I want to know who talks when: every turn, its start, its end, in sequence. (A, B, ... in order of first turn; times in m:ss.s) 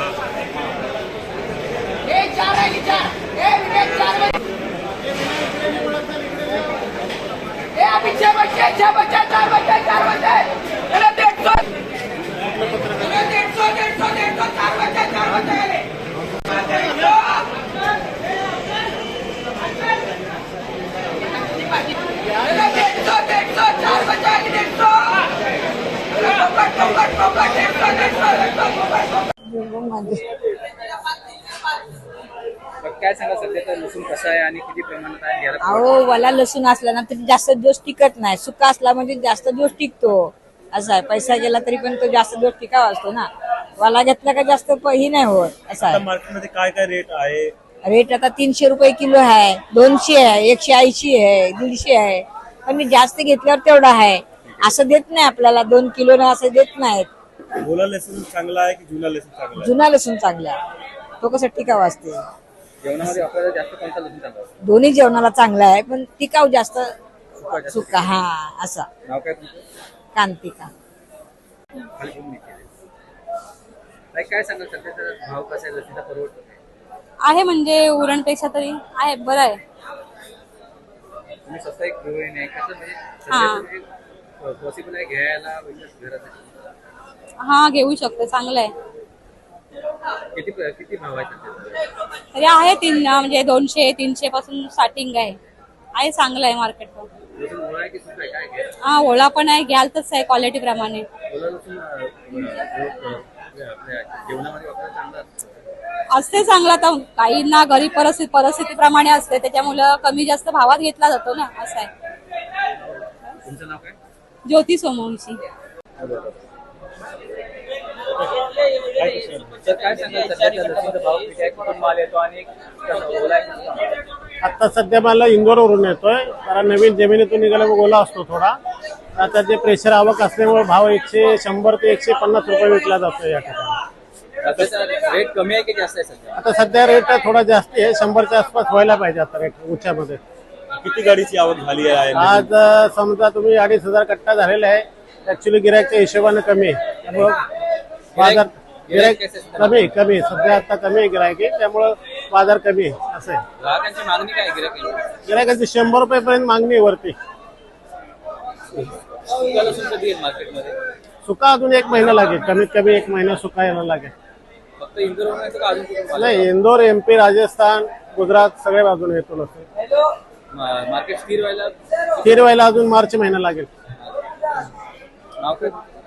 0:05.7-0:06.6 A
0:12.4-0:15.6 A
0:16.7-0:17.2 A
0:29.4-0:30.3 B
0:32.8-0:36.0 C
0:35.6-0:46.0 B
0:45.8-0:47.5 D
0:47.8-0:57.1 B
0:57.6-0:59.7 D
0:59.6-1:00.6 B
1:01.2-1:02.2 B
1:02.8-1:04.6 C
1:04.6-1:06.9 B
1:07.4-1:08.2 C
1:07.6-1:08.9 B
1:09.0-1:09.6 C
1:10.1-1:10.7 B
1:12.0-1:12.7 C
1:14.1-1:16.6 C
1:17.2-1:19.6 E
1:21.4-1:23.9 C
1:23.3-1:23.6 E
1:24.4-1:26.5 C
1:27.4-1:28.7 E
1:30.3-1:31.8 C
1:32.3-1:35.4 E
1:36.0-1:37.1 E
1:37.3-1:38.7 C
1:38.9-1:41.0 E
1:41.3-1:45.6 C
1:46.1-1:51.9 E
1:53.4-1:54.0 C
1:54.4-1:55.4 E
1:56.0-1:56.3 C
1:59.0-1:59.5 D
1:59.6-2:04.0 C
2:04.4-2:08.6 A
2:09.2-2:13.8 A
2:14.4-2:16.4 C
2:16.4-2:20.2 A
2:20.7-2:22.5 D
2:22.1-2:27.4 A
2:28.1-2:30.0 C
2:28.2-2:33.4 A
2:33.6-2:35.0 C
2:35.3-2:37.2 A
2:38.7-2:40.8 C
2:41.2-2:44.1 A
2:44.8-2:46.5 C
2:46.2-2:49.7 A
2:50.5-2:52.5 C
2:52.2-2:53.7 A
2:55.4-2:55.8 C